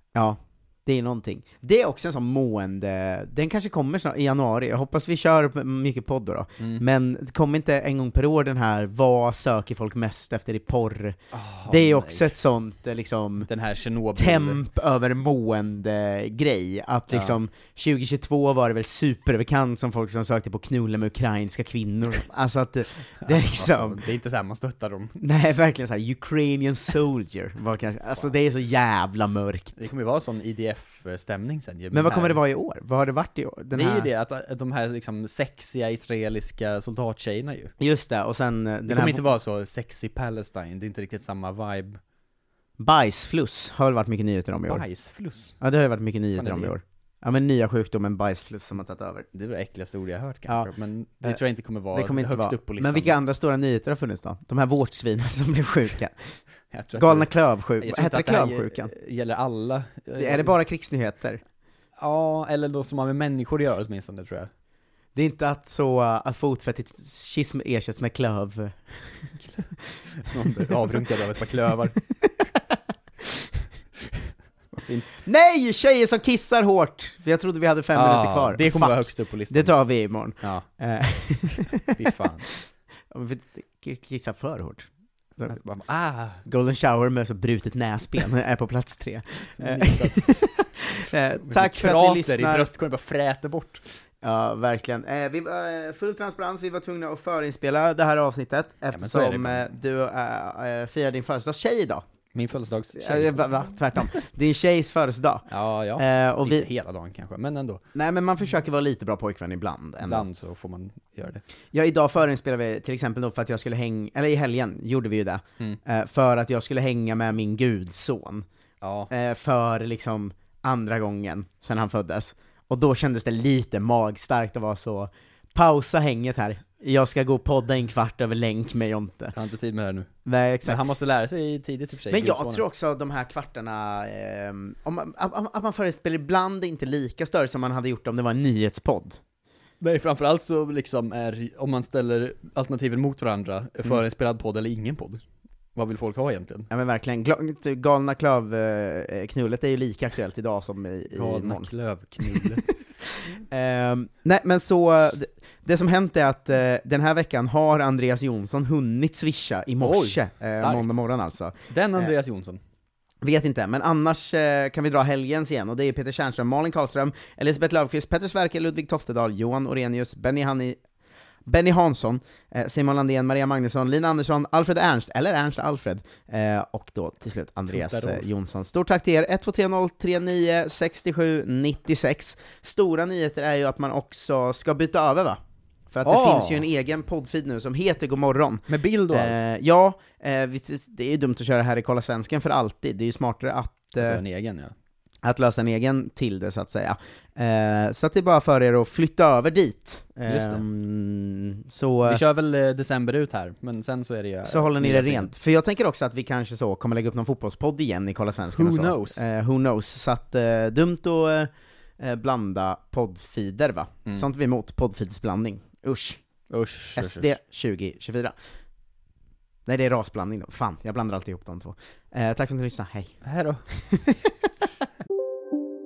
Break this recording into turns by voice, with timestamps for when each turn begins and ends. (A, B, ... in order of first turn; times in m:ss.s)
0:00.1-0:13.5 A
0:06.6-0:06.8 B
0:11.3-0:12.3 B
0:13.4-0:14.6 B
0:14.1-0:24.0 A
0:17.1-0:17.4 B
0:23.2-0:25.2 B
0:25.2-0:29.9 A
0:29.8-0:32.4 B
0:31.9-0:34.1 A
0:33.7-0:37.7 B
0:37.8-0:39.2 A
0:38.8-0:42.0 B
0:42.8-0:44.8 A
0:44.7-0:45.5 B
0:45.6-0:49.3 A
0:46.3-0:46.7 B
0:49.3-0:53.2 B
0:51.9-0:56.4 A
0:56.7-1:00.5 B
0:56.9-0:58.9 A
1:00.1-1:01.4 A
1:02.0-1:04.5 B
1:05.1-1:09.3 A
1:10.2-1:12.0 B
1:10.5-1:10.9 A
1:14.7-1:15.1 B
1:15.2-1:21.9 A
1:17.9-1:19.7 B
1:21.9-1:22.5 B
1:23.1-1:25.6 A
1:25.5-1:26.4 B
1:26.4-1:32.7 A
1:29.5-1:30.5 B
1:31.3-1:33.8 B
1:34.2-1:42.0 A
1:38.9-1:39.7 B
1:42.3-1:43.4 B
1:42.9-1:45.4 A
1:45.5-1:47.8 B
1:46.0-1:46.7 A
1:47.9-1:50.2 A
1:50.0-1:51.4 B
1:51.7-1:58.4 A
1:58.8-1:59.1 B
1:59.1-2:09.4 A
2:09.3-2:10.1 B
2:10.2-2:10.8 A
2:10.6-2:12.6 B
2:12.1-2:19.2 A
2:19.8-2:25.2 B
2:25.7-2:26.7 B
2:26.7-2:42.1 A
2:31.1-2:32.7 B
2:39.8-2:40.9 B
2:41.7-2:42.6 B
2:43.2-2:50.8 A
2:51.4-3:05.4 A
2:57.7-2:58.3 B
3:05.9-3:14.2 A
3:06.0-3:06.7 B
3:08.7-3:09.4 B
3:14.0-3:14.7 B
3:15.2-3:22.2 A
3:20.2-3:20.6 B
3:22.0-3:25.3 B
3:24.4-3:36.2 A
3:28.5-3:29.2 B
3:36.5-3:37.3 B
3:36.9-3:38.4 A
3:39.6-3:43.2 A
3:43.2-3:43.7 B
3:43.7-3:44.4 A